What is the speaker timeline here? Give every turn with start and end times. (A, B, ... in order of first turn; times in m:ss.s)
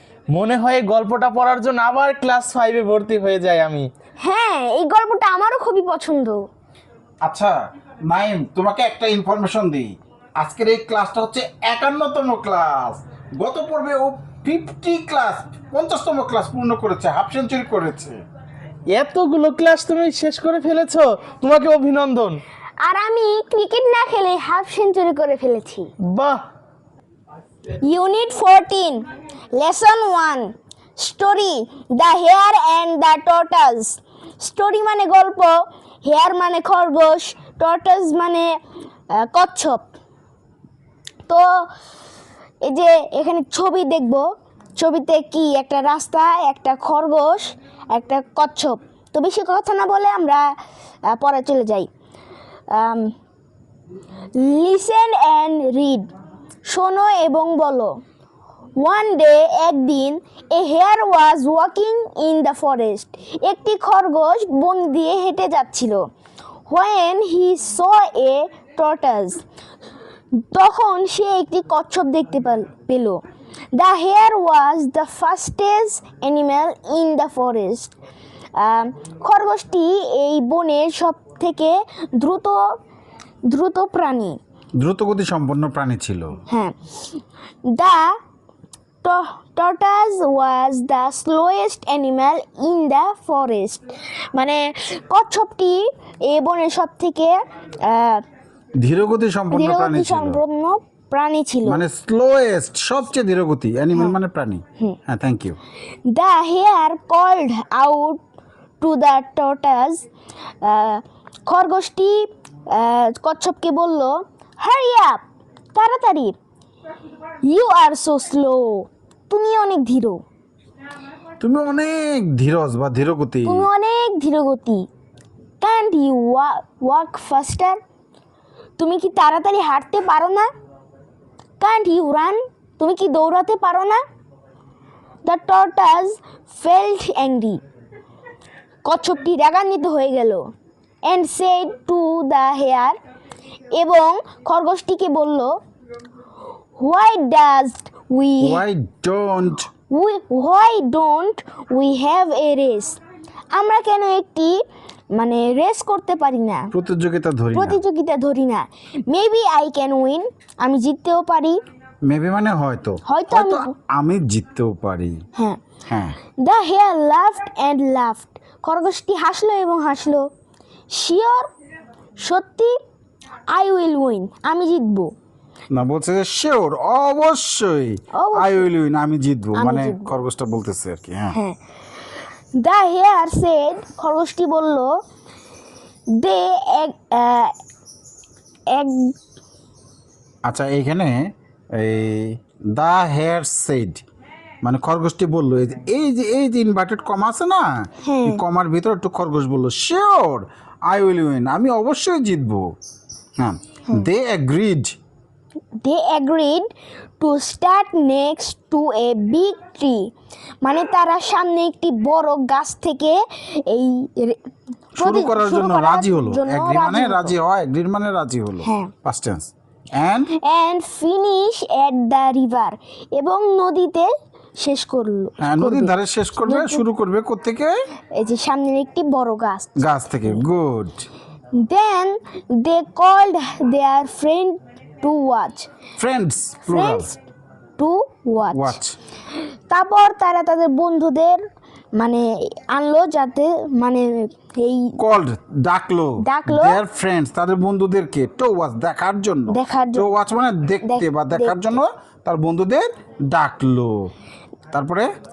0:00.3-0:03.9 A
0:04.2-0:06.4 B
0:07.2-0:18.2 C
0:18.9-0:22.4 A
0:22.8-0:25.9 B
0:26.0-0:26.4 A
0:27.8-0:38.5 B
0:39.1-0:39.9 B
0:41.3-0:41.6 B
0:42.6-0:44.2 B
0:44.8-0:50.4 B
0:51.1-0:51.9 B
0:52.7-0:53.1 B
0:54.4-0:56.1 B
0:56.7-0:57.9 B
0:58.8-1:06.0 B
1:06.7-1:09.4 B
1:10.4-1:13.2 B
1:13.7-1:17.9 B
1:18.6-1:22.6 B
1:23.5-1:24.4 B
1:24.8-1:26.3 C
1:26.5-1:26.8 B
1:27.6-1:28.2 B
1:29.0-1:38.2 B
1:38.8-1:40.4 C
1:39.5-1:41.8 B
1:41.6-1:45.6 C
1:46.1-1:48.2 B
1:48.8-1:50.1 B
1:50.6-1:55.2 B
1:55.7-1:56.4 B
1:57.4-2:00.2 B
2:01.4-2:03.7 C
2:03.4-2:04.9 B
2:05.6-2:07.8 B
2:08.8-2:10.5 B
2:11.6-2:14.0 B
2:15.2-2:17.6 B
2:18.8-2:20.5 B
2:21.0-2:23.0 B
2:23.7-2:25.5 B
2:26.8-2:28.6 B
2:28.4-2:29.7 C
2:29.9-2:33.0 B
2:33.5-2:34.6 B
2:35.1-2:36.7 B
2:36.7-2:37.8 C
2:37.5-2:41.6 B
2:42.1-2:45.2 C
2:43.0-2:43.7 B
2:45.9-2:46.2 C
2:46.4-2:50.2 B
2:50.9-2:51.5 B
2:52.2-2:52.7 B
2:53.5-2:55.1 B
2:55.7-3:01.4 C
2:58.1-2:58.7 B
2:59.5-3:00.1 B
3:01.3-3:01.6 B
3:02.6-3:04.9 B
3:06.1-3:07.5 B
3:08.7-3:09.2 B
3:10.4-3:14.0 C
3:14.6-3:17.6 C
3:18.0-3:18.4 B
3:18.2-3:22.7 C
3:23.4-3:24.9 C
3:25.8-3:26.7 B
3:27.2-3:30.1 B
3:30.6-3:34.4 B
3:35.0-3:37.3 B
3:35.0-3:40.3 C
3:38.6-3:38.9 B
3:40.3-3:46.8 B
3:45.4-3:47.8 C
3:48.1-3:50.4 B
3:49.8-3:51.1 C
3:51.6-3:55.7 B
3:56.0-3:57.1 C
3:56.7-3:57.2 B
3:57.8-3:58.8 B
3:58.5-3:59.0 C
3:59.7-4:01.4 B
4:02.0-4:05.0 B
4:05.0-4:13.9 C
4:06.2-4:06.8 B
4:09.5-4:10.1 B
4:10.8-4:11.8 B
4:14.7-4:15.1 C